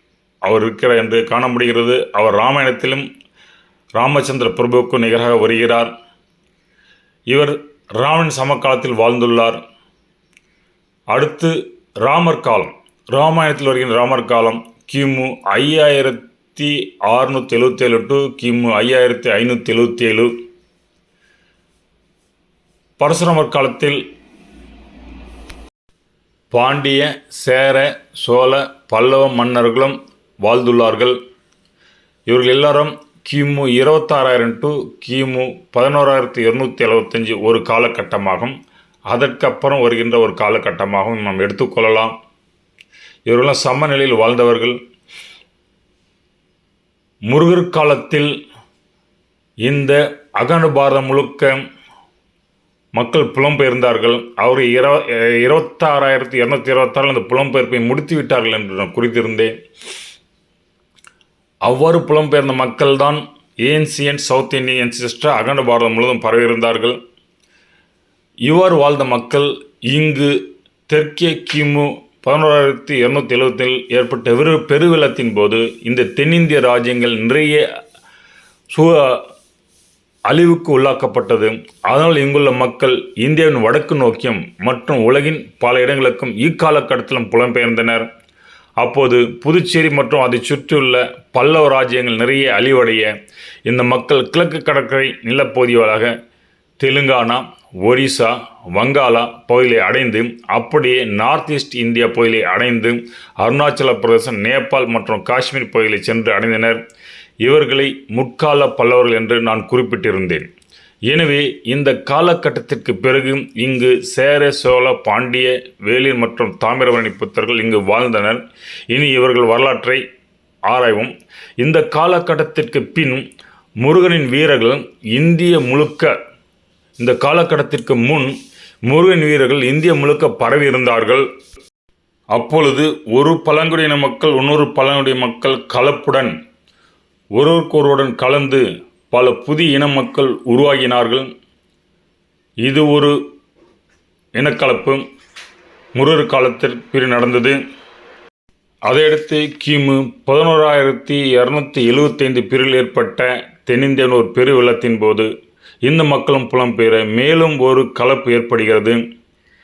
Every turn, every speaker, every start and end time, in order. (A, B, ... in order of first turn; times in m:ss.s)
0:00.4-0:03.1 A
0:04.0-0:05.9 A
0:07.3-0:09.6 A
0:11.1-0:20.3 A
0:23.0-0:24.0 A
0:26.5-0:31.2 A
0:32.3-0:38.6 A
0:39.1-0:42.1 A
0:43.3-0:44.8 A
0:47.3-0:48.3 A
0:49.7-0:51.6 A
0:53.0-0:59.5 A
1:01.6-1:07.0 A
1:08.5-1:17.6 A
1:18.7-1:19.2 A
1:20.3-1:28.1 A
1:28.8-1:33.1 A
1:33.6-1:36.1 A
1:36.8-1:46.8 A
1:47.4-1:50.5 A
1:51.1-2:00.0 A
2:00.7-2:03.2 A
2:03.8-2:06.1 A
2:07.0-2:08.3 A
2:08.9-2:11.2 A
2:12.3-2:16.3 A
2:17.4-2:21.3 A
2:22.6-2:23.2 A
2:24.4-2:25.0 A
2:25.9-2:27.6 A
2:28.9-2:35.3 A
2:35.8-2:39.0 A